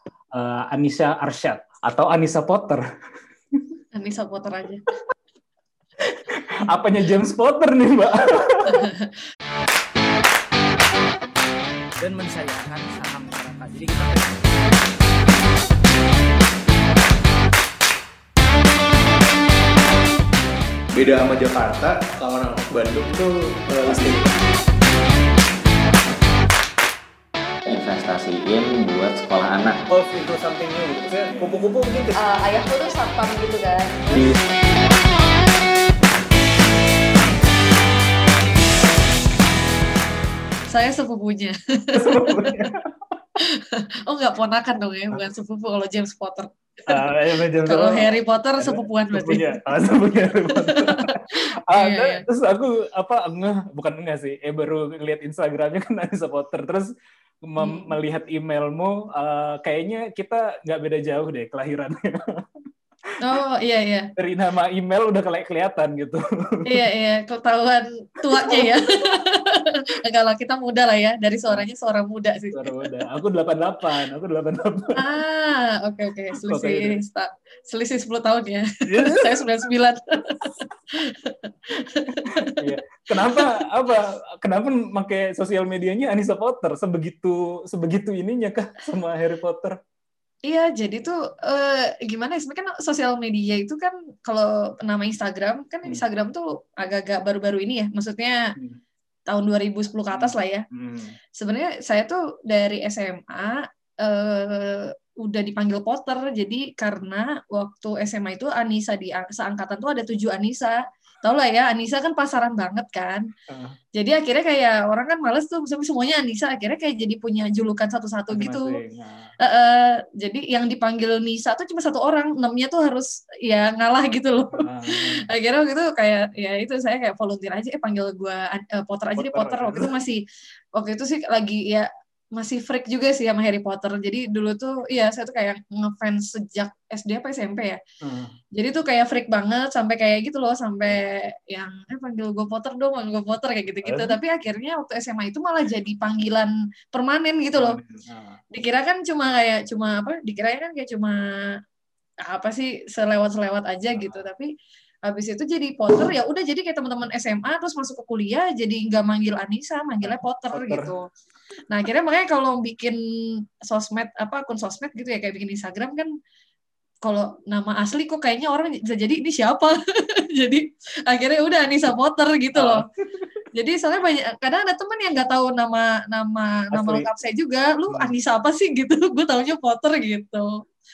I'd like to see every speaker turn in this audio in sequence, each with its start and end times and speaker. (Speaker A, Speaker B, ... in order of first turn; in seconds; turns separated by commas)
Speaker A: 0.3-2.8, Speaker B: 3.9-4.8, Speaker A: 6.0-8.8, Speaker B: 8.7-9.1, Speaker C: 12.0-14.6, Speaker D: 20.9-24.3, Speaker E: 27.6-29.8, Speaker A: 29.9-32.2, Speaker B: 32.2-34.2, Speaker B: 40.7-42.5, Speaker A: 42.0-42.9, Speaker B: 43.4-47.0, Speaker A: 46.9-56.9, Speaker B: 47.6-49.6, Speaker B: 50.5-51.0, Speaker B: 51.7-52.2, Speaker A: 57.4-62.2, Speaker B: 57.6-57.9, Speaker B: 63.2-64.1, Speaker A: 64.2-66.8, Speaker B: 66.7-72.7, Speaker A: 68.3-68.7, Speaker A: 72.5-75.0, Speaker B: 75.0-82.5, Speaker A: 76.4-77.0, Speaker A: 78.8-79.4, Speaker A: 82.4-89.8, Speaker B: 83.2-83.5, Speaker B: 90.5-98.4, Speaker B: 99.3-100.6, Speaker A: 100.1-101.2, Speaker B: 101.3-113.3, Speaker A: 113.5-113.8, Speaker B: 113.9-118.8, Speaker A: 118.3-119.3, Speaker B: 119.4-130.2, Speaker A: 124.5-125.3, Speaker A: 129.2-129.9, Speaker B: 130.7-137.8, Speaker A: 138.0-138.3, Speaker B: 138.5-147.8, Speaker A: 143.8-144.2, Speaker A: 147.5-148.4, Speaker B: 148.5-151.2, Speaker B: 152.2-154.5, Speaker A: 153.9-154.2, Speaker B: 155.0-161.1, Speaker A: 160.0-160.9, Speaker B: 161.7-166.1, Speaker B: 167.0-172.8, Speaker A: 172.5-173.3, Speaker B: 173.5-180.5, Speaker A: 176.7-177.1